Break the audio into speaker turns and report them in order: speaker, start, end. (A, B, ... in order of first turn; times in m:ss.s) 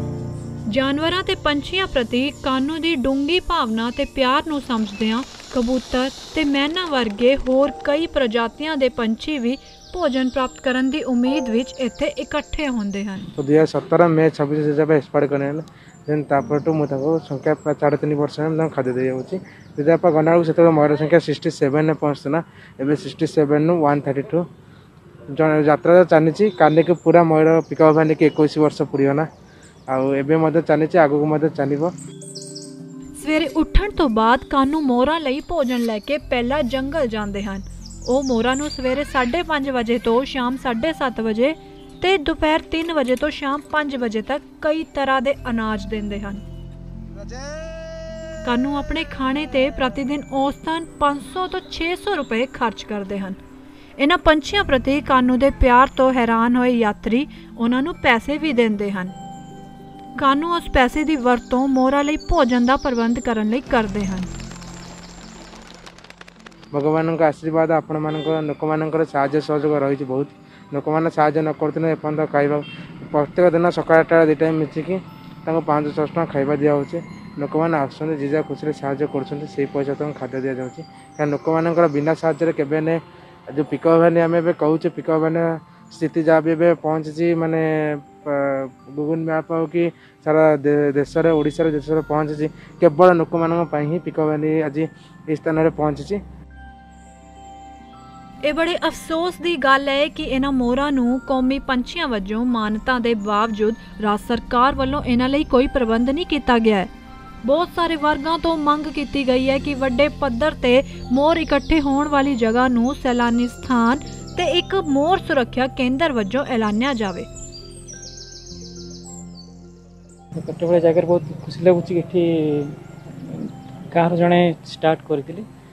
0:00.7-0:13.3 A
0:13.4-0:24.4 B
0:25.3-0:29.3 B
0:29.9-0:31.9 B
0:33.2-0:46.4 A
0:48.4-0:53.4 A
0:54.0-0:59.1 A
1:00.2-1:04.3 A
1:06.7-1:36.2 B
1:38.4-1:46.9 A
1:47.4-1:57.3 A
2:00.4-2:05.5 C